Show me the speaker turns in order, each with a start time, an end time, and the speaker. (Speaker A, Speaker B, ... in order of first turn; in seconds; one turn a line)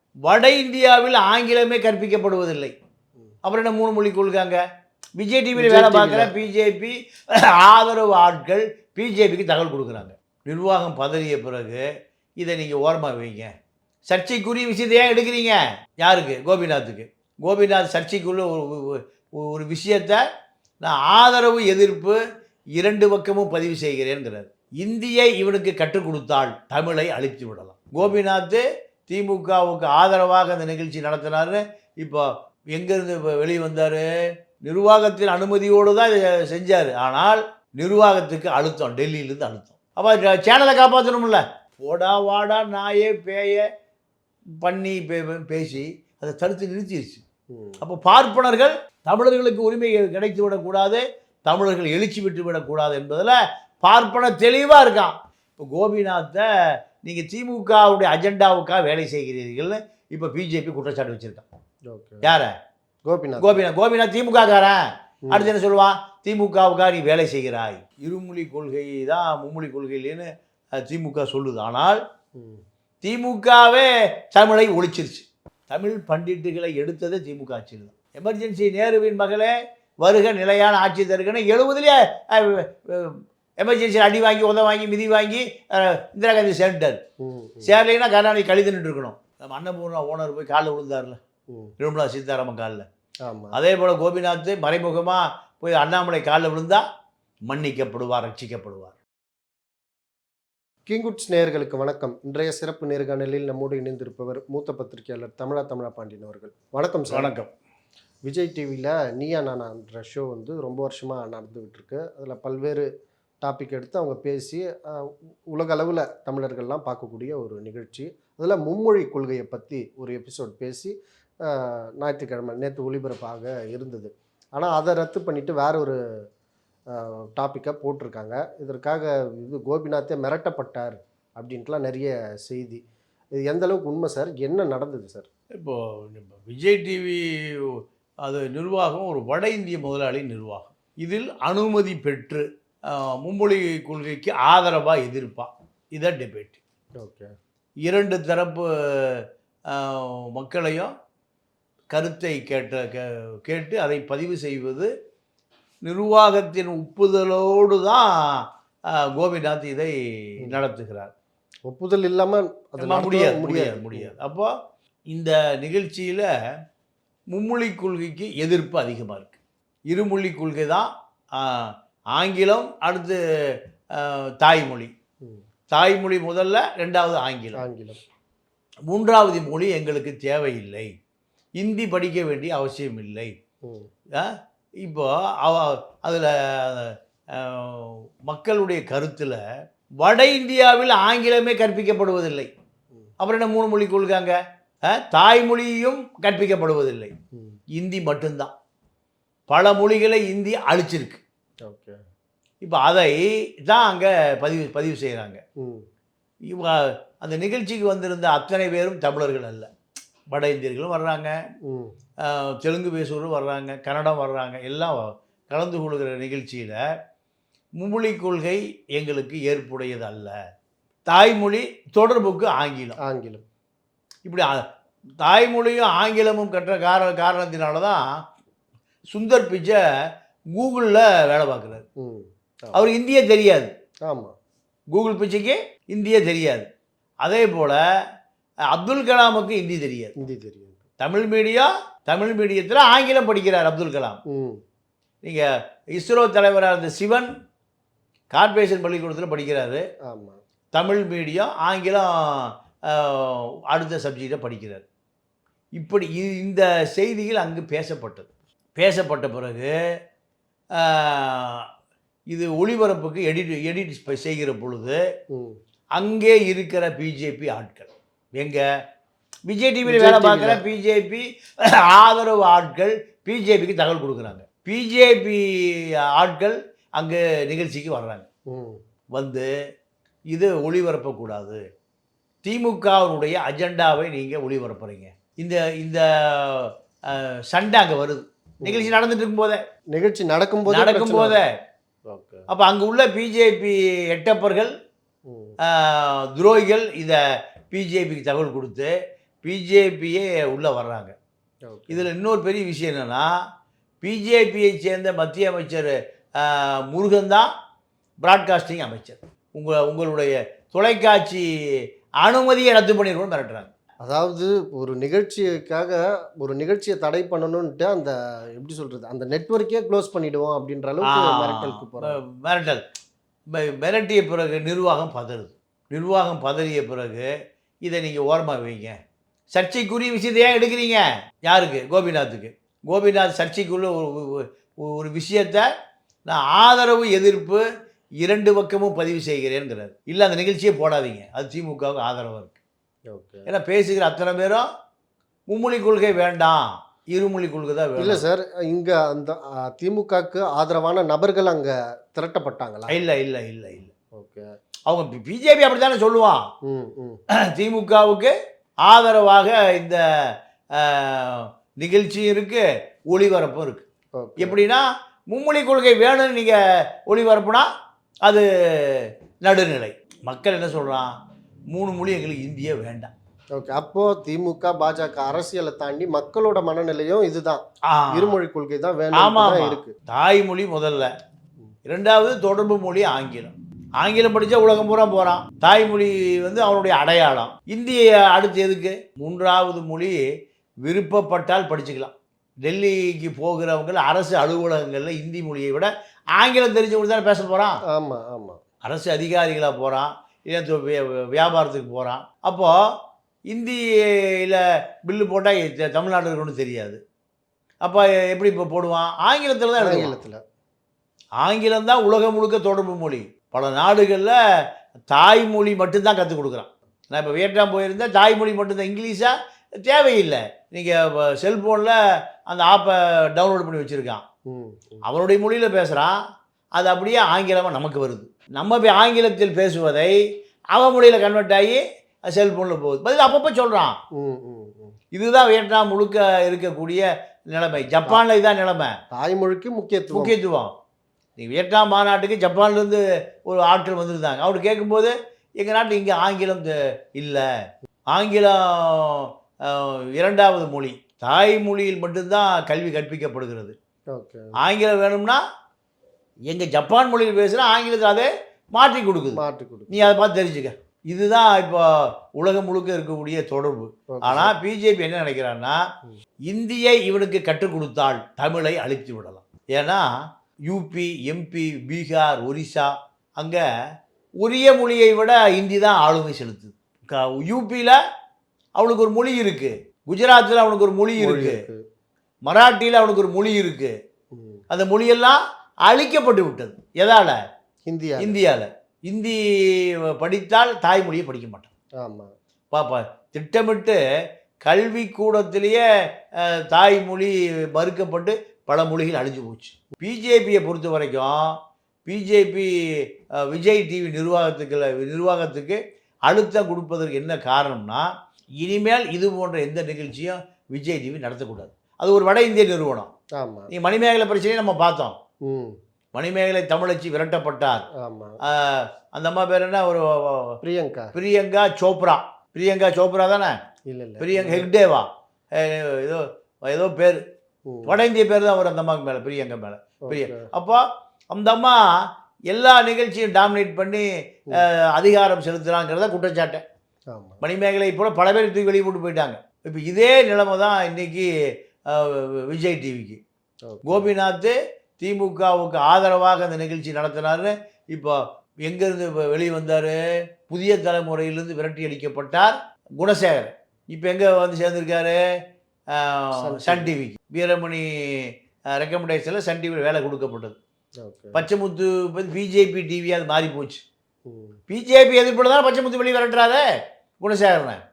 Speaker A: 0.2-2.7
Speaker A: 3.4-4.6
Speaker A: 5.2-11.8
Speaker B: 5.6-6.3
Speaker A: 12.4-13.5
Speaker A: 14.1-20.2
Speaker A: 20.8-22.2
Speaker A: 22.8-34.1
Speaker A: 34.6-43.6
Speaker A: 44.6-47.2
Speaker B: 47.5-47.8
Speaker A: 47.8-56.5
Speaker A: 57.0-61.5
Speaker B: 61.9-62.4
Speaker A: 62.2-62.5
Speaker B: 63.1-63.6
Speaker A: 63.4-72.0
Speaker B: 65.3-65.5
Speaker B: 72.3-72.6
Speaker A: 73.0-87.0
Speaker B: 87.2-87.8
Speaker A: 87.6-91.2
Speaker A: 91.8-92.9
Speaker B: 93.2-93.6
Speaker A: 93.5-96.8
Speaker A: 97.5-99.0
Speaker B: 100.9-107.3
Speaker A: 107.1-107.5
Speaker B: 108.2-112.9
Speaker B: 113.4-126.0
Speaker B: 126.9-132.8
Speaker B: 133.3-135.3
Speaker A: 135.6-146.6
Speaker B: 147.0-147.3
Speaker A: 147.8-150.9
Speaker A: 151.9-154.9
Speaker A: 155.8-161.1
Speaker B: 161.7-164.1
Speaker A: 162.8-164.5
Speaker A: 165.1-166.3
Speaker A: 167.3-169.4
Speaker A: 169.9-173.2
Speaker A: 173.9-174.9
Speaker A: 175.7-177.6
Speaker B: 177.6-178.0
Speaker A: 178.9-180.9
Speaker A: 181.6-183.3
Speaker B: 183.6-183.9
Speaker A: 184.1-189.4
Speaker A: 190.0-192.5
Speaker A: 193.2-197.1
Speaker A: 197.7-198.5
Speaker A: 199.5-201.2
Speaker B: 201.6-202.0
Speaker A: 202.6-205.4
Speaker B: 205.6-205.8
Speaker A: 206.5-209.7
Speaker A: 210.3-211.4
Speaker B: 211.7-211.9
Speaker A: 212.2-216.8
Speaker A: 217.8-220.3
Speaker A: 221.1-223.0
Speaker B: 223.0-223.4
Speaker A: 224.3-224.6
Speaker A: 225.2-228.2
Speaker A: 229.1-229.8
Speaker A: 230.5-231.8
Speaker B: 232.0-232.9
Speaker A: 232.7-233.7
Speaker B: 234.1-234.3
Speaker A: 234.9-236.7
Speaker A: 237.2-237.8
Speaker A: 238.7-240.1
Speaker B: 240.2-240.8
Speaker A: 241.0-244.2
Speaker B: 244.3-244.6
Speaker A: 245.2-247.3
Speaker A: 248.3-249.8
Speaker B: 250.1-250.4
Speaker A: 250.7-254.8
Speaker A: 255.8-259.7
Speaker A: 260.8-261.7
Speaker A: 262.3-265.0
Speaker B: 265.3-265.6
Speaker A: 265.9-268.6
Speaker A: 269.5-278.3
Speaker B: 269.9-270.6
Speaker B: 278.5-278.8
Speaker A: 279.1-279.5
Speaker A: 280.3-281.6
Speaker A: 282.4-289.6
Speaker B: 288.6-289.0
Speaker B: 289.9-291.4
Speaker A: 290.7-291.6
Speaker B: 292.1-292.5
Speaker A: 292.5-294.7
Speaker B: 295.3-295.6
Speaker A: 295.6-297.2
Speaker A: 297.7-301.1
Speaker B: 301.7-302.1
Speaker A: 301.9-303.4
Speaker A: 304.0-307.5
Speaker A: 308.2-311.4
Speaker A: 312.2-313.7
Speaker B: 314.0-322.2
Speaker A: 321.0-322.8
Speaker A: 323.5-327.3
Speaker A: 327.8-329.0
Speaker A: 329.5-335.7
Speaker A: 336.3-337.6
Speaker A: 338.2-342.6
Speaker B: 343.1-343.5
Speaker A: 343.5-344.7
Speaker A: 345.5-348.2
Speaker B: 348.0-352.9
Speaker A: 352.9-353.9
Speaker B: 354.1-354.5
Speaker A: 354.9-356.4
Speaker B: 356.6-357.2
Speaker A: 357.4-358.3
Speaker A: 358.9-360.0
Speaker A: 360.7-363.9
Speaker B: 364.2-364.6
Speaker A: 364.4-367.7
Speaker A: 368.2-371.1
Speaker A: 371.7-373.1
Speaker B: 373.5-379.9
Speaker A: 377.9-378.4
Speaker A: 379.1-381.1
Speaker A: 381.9-390.2
Speaker A: 390.8-397.8
Speaker B: 397.9-398.6
Speaker A: 398.9-402.9
Speaker A: 403.5-407.0
Speaker A: 407.8-410.1
Speaker B: 409.8-410.4
Speaker A: 411.4-414.4
Speaker A: 415.1-424.2
Speaker B: 424.5-425.0
Speaker A: 425.0-426.2
Speaker A: 426.8-430.2
Speaker A: 430.7-434.0
Speaker B: 434.1-434.9
Speaker A: 435.1-439.0
Speaker B: 439.1-440.4
Speaker A: 440.1-440.7
Speaker A: 441.4-447.5
Speaker A: 448.1-453.8
Speaker B: 454.1-454.5
Speaker A: 454.6-455.4
Speaker A: 456.5-465.8
Speaker B: 459.3-460.1
Speaker B: 464.1-464.6
Speaker A: 466.5-473.6
Speaker A: 474.4-478.0
Speaker A: 478.8-481.6
Speaker B: 481.2-481.8
Speaker A: 482.4-483.9
Speaker B: 484.3-484.6
Speaker A: 484.7-487.4
Speaker B: 487.9-488.4
Speaker A: 488.2-491.7
Speaker B: 492.0-492.3
Speaker A: 492.7-494.0
Speaker A: 494.6-495.9
Speaker A: 496.4-513.1
Speaker B: 513.4-513.7
Speaker A: 513.7-515.2
Speaker B: 515.5-515.8
Speaker A: 516.1-517.9
Speaker B: 518.0-518.4
Speaker A: 518.4-520.6
Speaker B: 520.6-521.1
Speaker A: 521.1-523.6
Speaker B: 523.9-524.7
Speaker A: 524.2-527.2
Speaker B: 527.7-528.0
Speaker A: 527.9-536.6
Speaker B: 530.1-530.5
Speaker B: 537.1-537.4
Speaker A: 537.4-541.3
Speaker A: 541.9-543.2
Speaker B: 543.7-544.1
Speaker A: 543.9-550.0
Speaker A: 550.5-555.2
Speaker A: 555.9-560.6
Speaker B: 556.4-556.9
Speaker B: 561.0-561.4
Speaker A: 561.3-563.8
Speaker B: 564.3-564.6
Speaker A: 564.7-566.7
Speaker A: 567.2-567.8